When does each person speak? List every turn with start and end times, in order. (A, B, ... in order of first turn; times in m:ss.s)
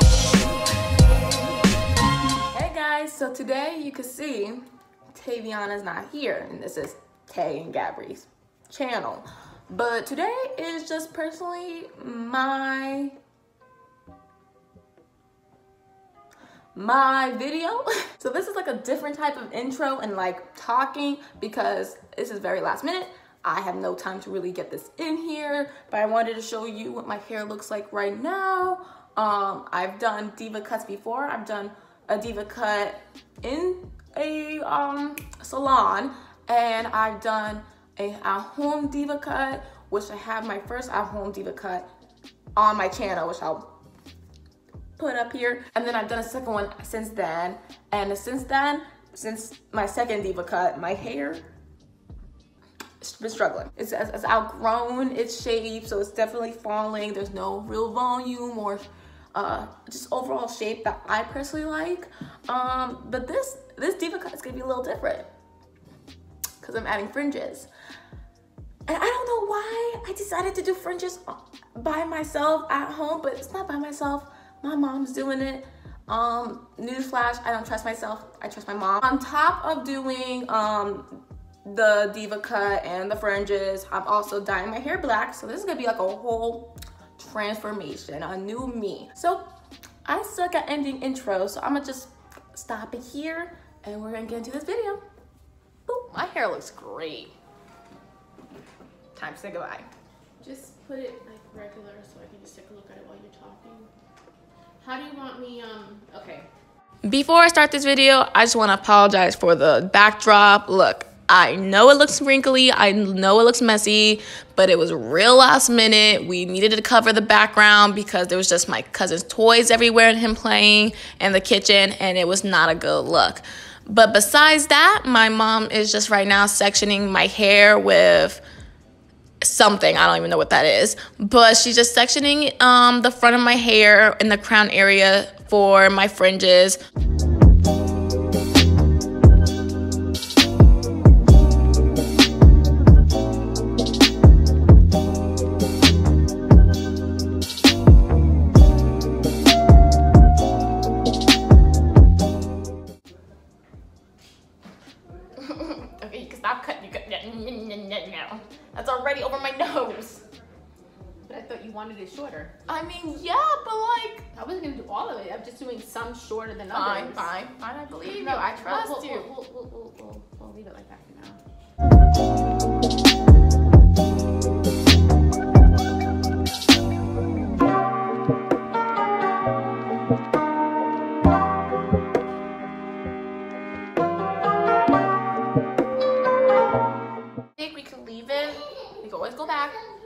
0:02.5-0:13.1 A
0:16.7-0:41.9 A
0:42.6-0:43.7 A
0:45.0-0:51.4 A
0:53.0-1:05.3 A
1:06.6-1:07.7 A
1:08.9-1:21.1 A
1:21.6-1:29.4 A
1:30.0-1:35.0 A
1:35.9-1:37.3 A
1:39.1-1:39.9 A
1:40.4-1:43.9 B
1:44.8-1:46.5 B
1:47.0-2:08.4 A
2:09.4-2:16.8 A
2:35.4-2:40.2 A
2:41.2-2:42.5 B
2:42.7-2:44.3 A
2:44.3-2:47.3 B
2:46.7-2:49.3 A
2:48.0-2:51.4 B
3:07.6-3:09.8 A